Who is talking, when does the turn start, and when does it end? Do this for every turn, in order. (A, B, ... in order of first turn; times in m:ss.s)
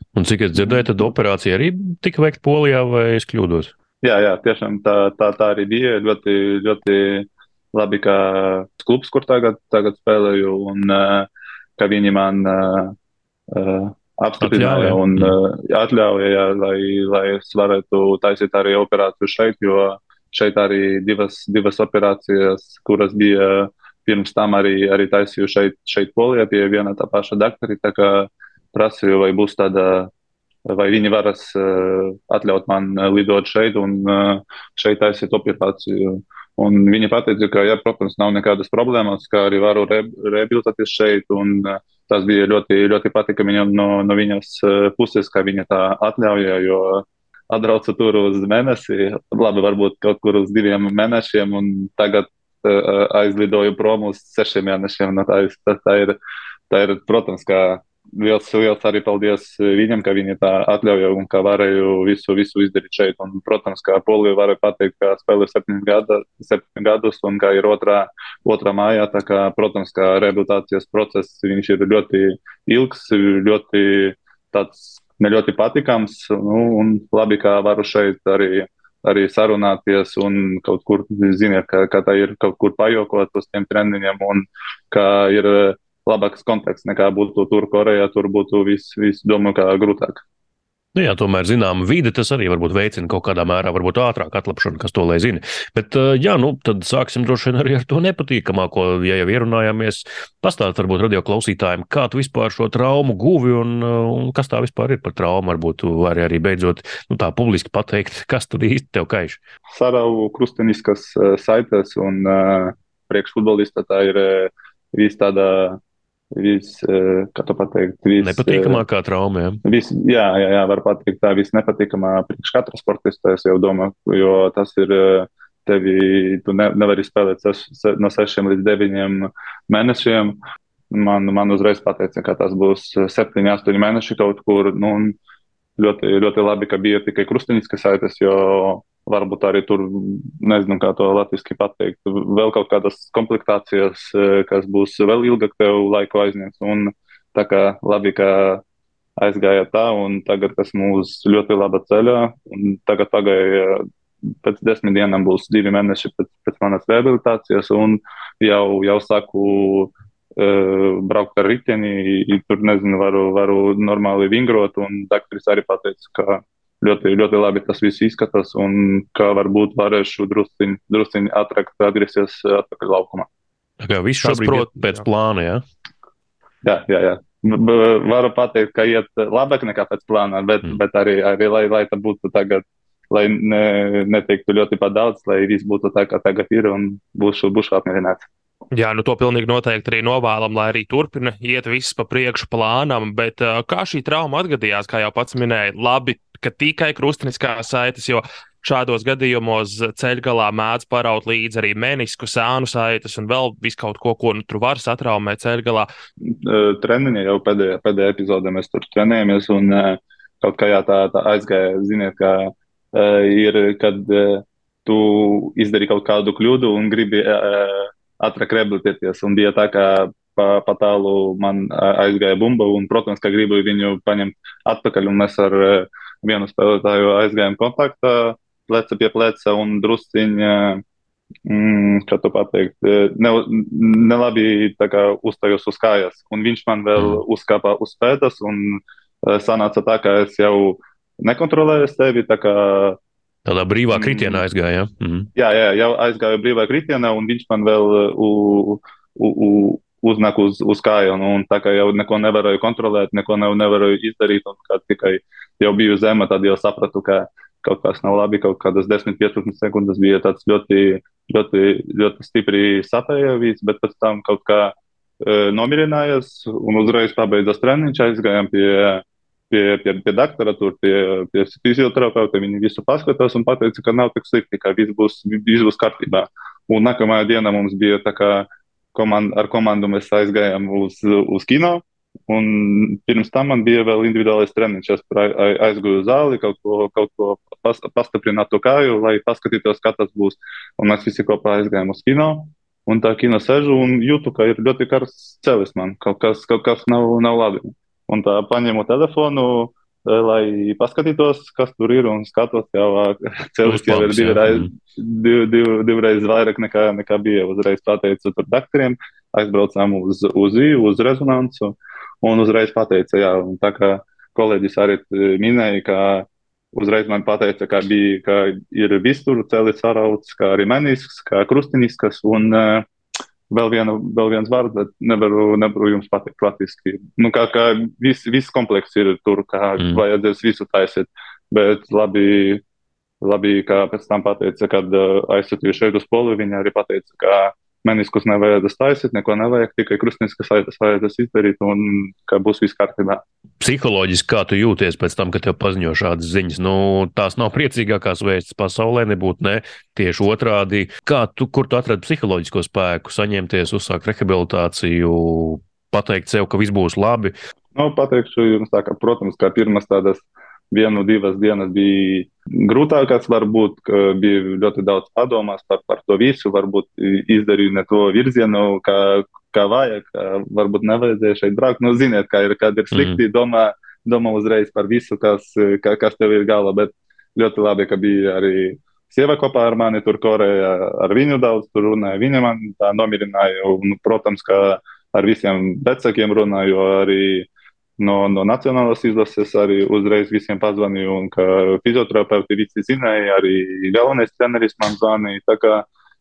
0:00.2-0:03.7 A
0:04.0-0:12.9 B
0:13.5-0:30.1 B
0:14.4-0:15.4 A
0:30.7-0:56.2 B
0:56.7-1:30.2 B
1:31.0-1:49.4 A
1:49.7-1:55.8 B
1:56.4-1:58.8 B
1:58.2-1:59.6 A
1:59.6-2:10.4 B
2:10.9-2:15.2 B
2:15.8-2:28.6 B
2:29.2-2:33.8 B
2:34.4-2:53.3 B
2:53.8-2:55.6 A
2:54.2-2:55.0 C
2:56.6-3:08.2 B
3:08.7-3:25.9 C
3:26.3-3:50.8 B
3:51.5-4:03.0 B
4:03.4-4:05.3 A
4:03.9-4:04.4 B
4:05.4-5:22.9 B
5:03.6-5:04.7 A
5:23.5-5:32.6 B
5:33.2-5:43.2 B
5:43.6-5:57.3 A
5:57.8-6:27.5 B
6:12.9-6:13.2 A
6:28.0-6:35.9 B